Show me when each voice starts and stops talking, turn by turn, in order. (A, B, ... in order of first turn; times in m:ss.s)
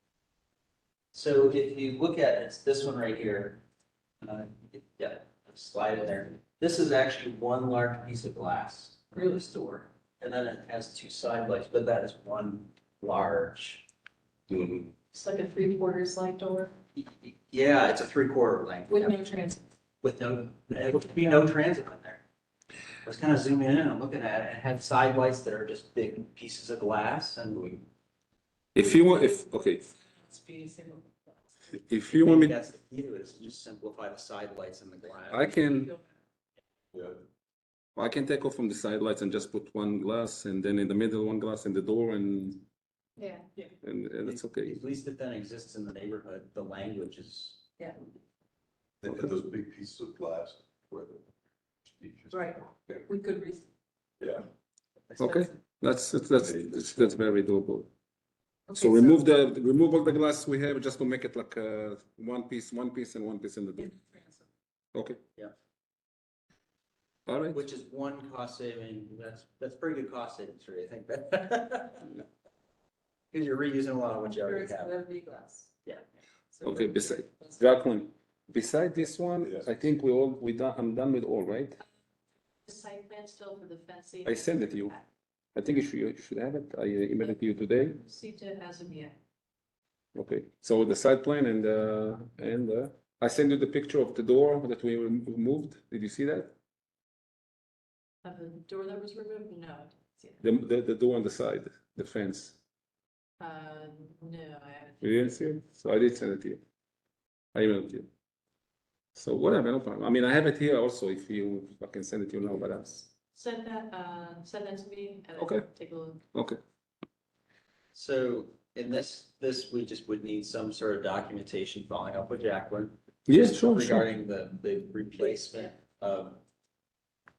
0:01.1-0:03.6 A
0:04.2-0:13.9 A
0:15.1-0:16.7 B
0:17.0-0:19.1 A
0:18.9-0:19.6 C
0:20.0-0:22.2 A
0:23.0-0:27.9 A
0:28.7-0:29.8 D
0:28.8-0:31.3 C
0:31.7-0:32.6 D
0:32.1-0:35.5 A
0:35.3-0:35.9 D
0:35.5-0:36.0 C
0:36.9-0:37.2 E
0:38.0-0:42.6 D
0:43.8-0:44.8 D
0:44.2-0:47.6 A
0:49.0-0:51.2 E
0:52.0-0:53.0 E
0:52.3-0:53.6 C
0:54.2-0:54.4 E
0:55.2-0:57.9 D
0:56.4-0:57.2 E
0:58.7-0:59.3 C
0:58.7-1:04.0 D
1:03.8-1:04.4 C
1:04.9-1:05.2 D
1:07.3-1:07.6 D
1:07.5-1:12.1 A
1:13.3-1:14.9 A
1:14.2-1:15.7 C
1:16.5-1:17.6 C
1:16.6-1:21.8 D
1:19.4-1:19.7 E
1:22.6-1:25.0 B
1:24.2-1:24.9 D
1:25.5-1:28.0 D
1:28.0-1:29.1 B
1:30.1-1:36.5 D
1:38.2-1:40.4 B
1:40.4-1:42.6 D
1:43.4-1:45.0 B
1:45.0-1:46.6 D
1:47.5-1:48.1 D
1:49.1-1:53.0 D
1:53.3-1:56.2 B
1:55.4-1:55.7 D
1:56.3-1:56.6 D
1:57.9-2:06.4 A
2:03.3-2:04.1 D